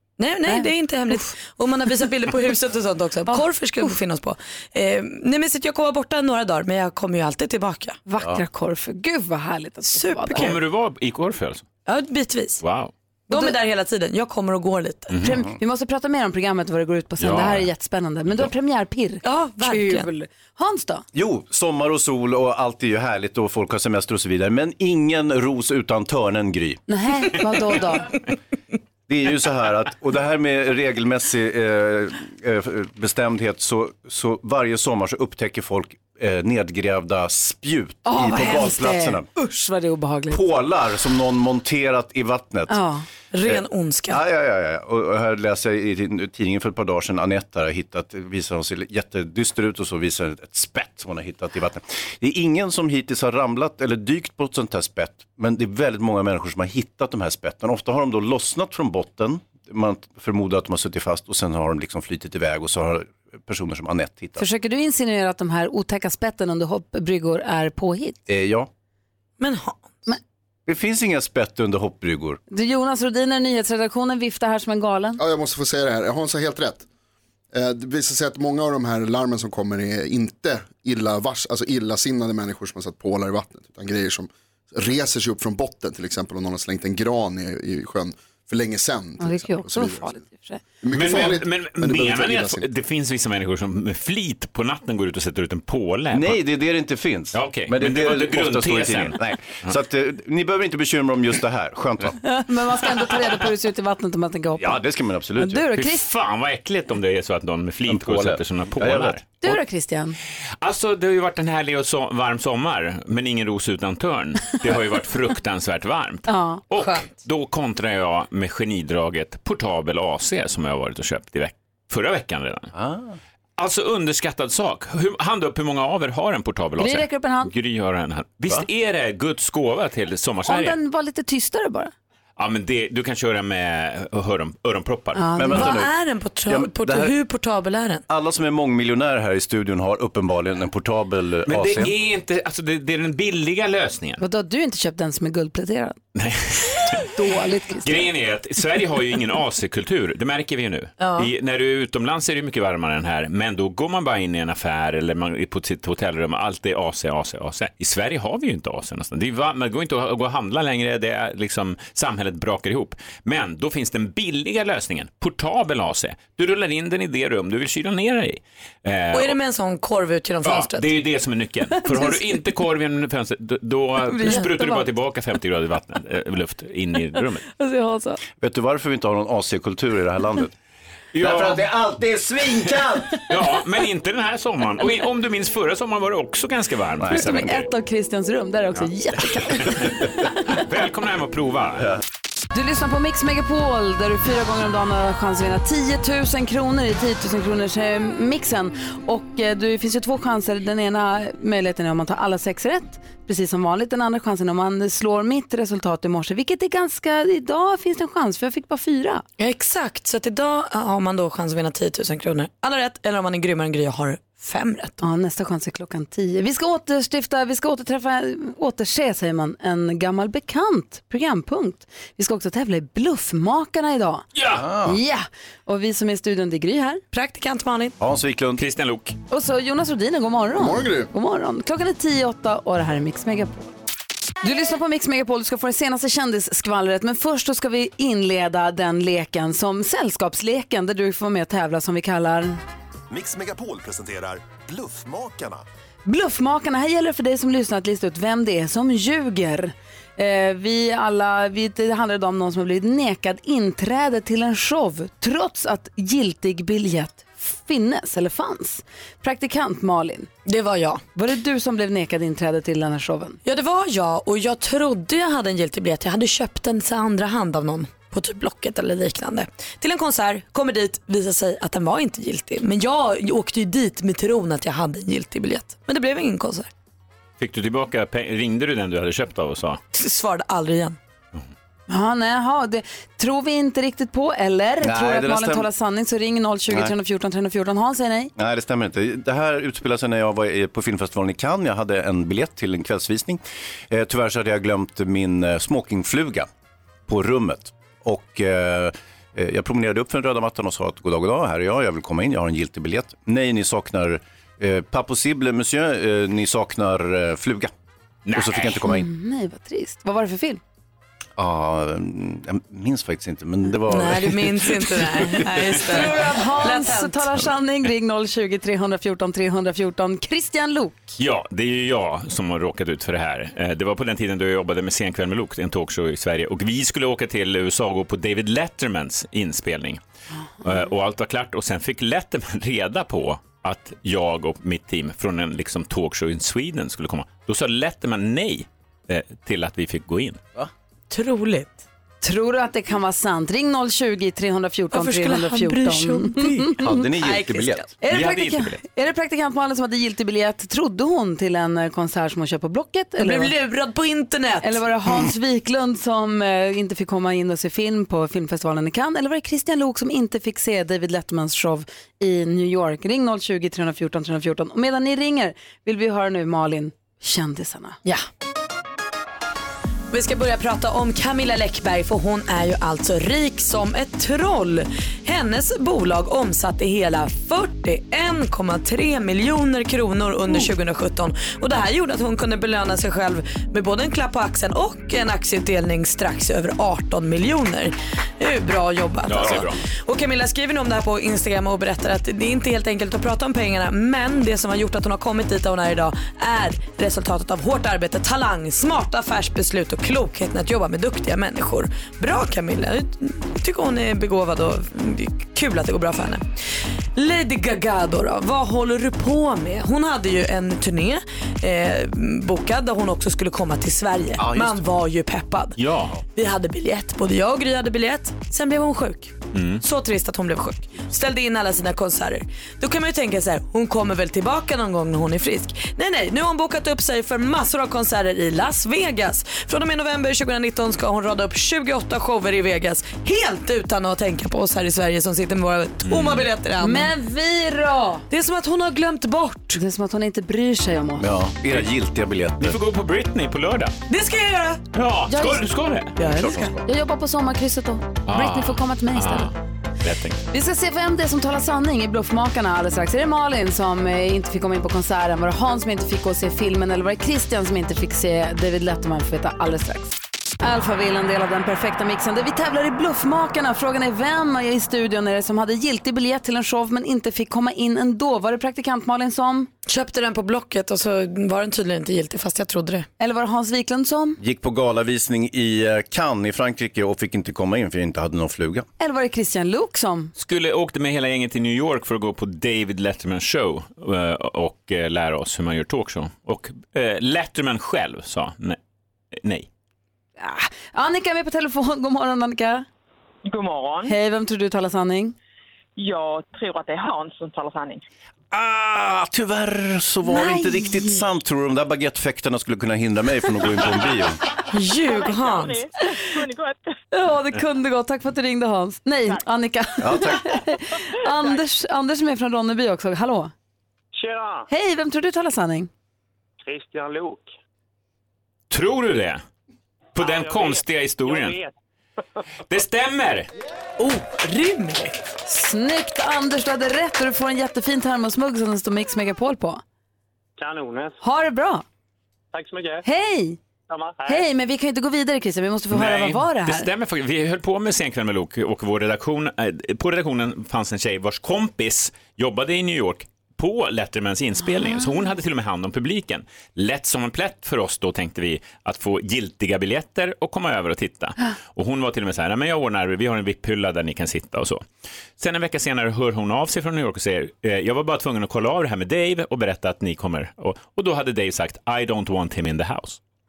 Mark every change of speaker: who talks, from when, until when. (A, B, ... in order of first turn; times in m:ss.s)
0:00.2-0:08.0 A
0:00.4-0:01.1 B
0:03.3-0:03.9 B
0:08.1-0:10.6 B
0:09.9-0:10.6 A
0:10.3-0:11.6 C
0:11.8-0:12.6 A
0:12.6-0:12.9 C
0:13.3-0:13.6 B
0:13.3-0:15.1 A
0:15.2-0:21.0 B
0:17.2-0:17.7 C
0:19.2-0:20.1 A
0:21.1-0:26.8 D
0:26.9-0:28.1 B
0:29.1-0:39.3 D
0:38.0-0:40.4 B
0:40.3-0:42.8 D
0:42.7-0:43.0 B
0:43.3-0:44.2 A
0:43.4-1:04.4 D
1:04.4-1:08.2 B
1:08.3-1:08.7 D
1:09.4-1:09.8 A
1:10.6-1:12.4 D
1:12.5-1:15.2 B
1:15.2-1:16.8 E
1:17.5-1:30.1 E
1:29.2-1:30.6 B
1:30.8-1:32.6 E
1:30.9-1:36.4 C
1:36.1-1:42.2 D
1:37.3-1:39.7 C
1:42.2-1:44.8 B
1:44.6-1:45.6 D
1:45.4-1:46.1 B
1:45.7-1:49.5 C
1:47.9-1:49.2 D
1:49.4-1:50.2 B
1:50.6-2:02.7 C
1:56.3-1:56.6 B
2:02.7-2:03.2 D
2:03.6-2:10.8 C
2:06.8-2:07.5 B
2:10.4-2:11.9 B
2:12.4-2:15.2 C
2:15.1-2:15.7 B
2:15.3-2:15.9 D
2:15.5-2:18.0 A
2:16.4-2:17.1 D
2:18.1-2:22.0 D
2:21.4-2:24.2 C
2:24.2-2:26.0 B
2:26.1-2:27.1 C
2:27.1-2:28.1 B
2:27.8-2:49.3 C
2:31.0-2:31.3 A
2:49.1-2:50.9 A
2:50.4-2:57.4 C
2:51.9-2:52.2 B
2:54.1-2:54.9 B
2:57.6-2:58.2 B
2:58.4-3:00.5 D
3:01.1-3:01.6 C
3:01.2-3:03.2 D
3:03.3-3:07.6 C
3:07.0-3:07.5 D
3:07.1-3:09.9 B
3:09.6-3:09.9 C
3:10.5-3:11.9 C
3:12.5-3:29.2 B
3:29.4-3:35.0 A
3:35.0-3:44.2 B
3:44.3-3:44.6 C
3:44.5-3:45.0 D
3:44.8-3:47.0 B
3:47.1-3:47.9 A
3:48.0-3:48.6 D
3:48.6-3:49.2 C
3:49.3-3:53.7 B
3:50.6-3:51.1 E
3:54.4-4:02.6 B
4:03.1-4:05.6 F
4:06.0-4:20.3 B
4:20.4-4:21.0 A
4:21.1-4:23.4 B
4:23.4-4:36.7 A
4:37.4-4:39.8 C
4:39.9-4:41.0 A
4:41.9-4:48.3 B
4:44.8-4:45.7 D
4:48.4-4:56.5 D
4:57.1-5:07.7 D
5:08.2-5:08.8 C
5:08.3-5:09.1 D
5:08.8-5:10.6 B
5:11.4-5:16.0 D
5:13.9-5:17.2 A
5:15.9-5:21.2 B
5:21.2-5:30.0 C
5:30.6-5:40.4 C
5:41.1-5:41.8 A
5:42.2-5:47.0 B
5:44.9-5:47.9 A
5:46.8-5:47.9 D
5:48.0-5:53.5 B
5:48.1-5:48.8 C
5:53.2-5:54.8 A
5:54.6-6:08.0 B
6:10.1-6:46.4 A
6:29.2-6:29.8 C
6:47.1-6:55.8 A
6:54.4-6:54.8 D
6:55.8-6:56.2 C
6:56.3-7:17.1 A
6:59.5-6:59.8 C
7:16.0-7:16.5 C
7:16.8-7:18.2 B
7:18.3-7:19.8 A
7:19.7-7:21.3 B
7:21.2-7:22.8 D
7:22.6-7:23.9 C
7:24.1-7:24.8 A
7:24.9-7:26.2 C
7:25.3-7:29.5 B
7:26.2-7:26.8 D
7:28.2-7:30.4 C
7:30.5-7:49.7 B
7:49.8-7:53.1 A
7:53.2-7:54.4 B
7:54.4-7:58.8 D
7:59.0-8:00.3 B
8:00.4-8:08.8 C
8:09.4-8:09.7 C
8:10.4-8:12.8 B
8:13.4-8:14.1 G
8:14.0-8:15.3 B
8:16.0-8:18.0 G
8:18.5-8:24.4 D
8:24.7-8:25.8 A
8:25.0-8:26.9 G
8:27.1-8:33.5 B
8:30.0-8:30.6 D
8:34.2-8:34.6 H
8:34.7-8:35.9 B
8:36.7-8:37.4 H
8:38.7-8:39.4 C
8:40.1-8:41.6 C
8:40.2-8:41.6 H
8:42.7-8:43.5 C
8:44.0-8:45.1 A
8:45.4-8:49.8 B
8:50.6-8:51.1 H
8:51.2-8:51.8 B
8:52.6-8:52.9 H
8:53.0-8:53.6 B
8:53.9-8:54.4 H
8:54.2-8:56.9 B
8:55.9-9:14.8 C
9:15.4-9:23.2 C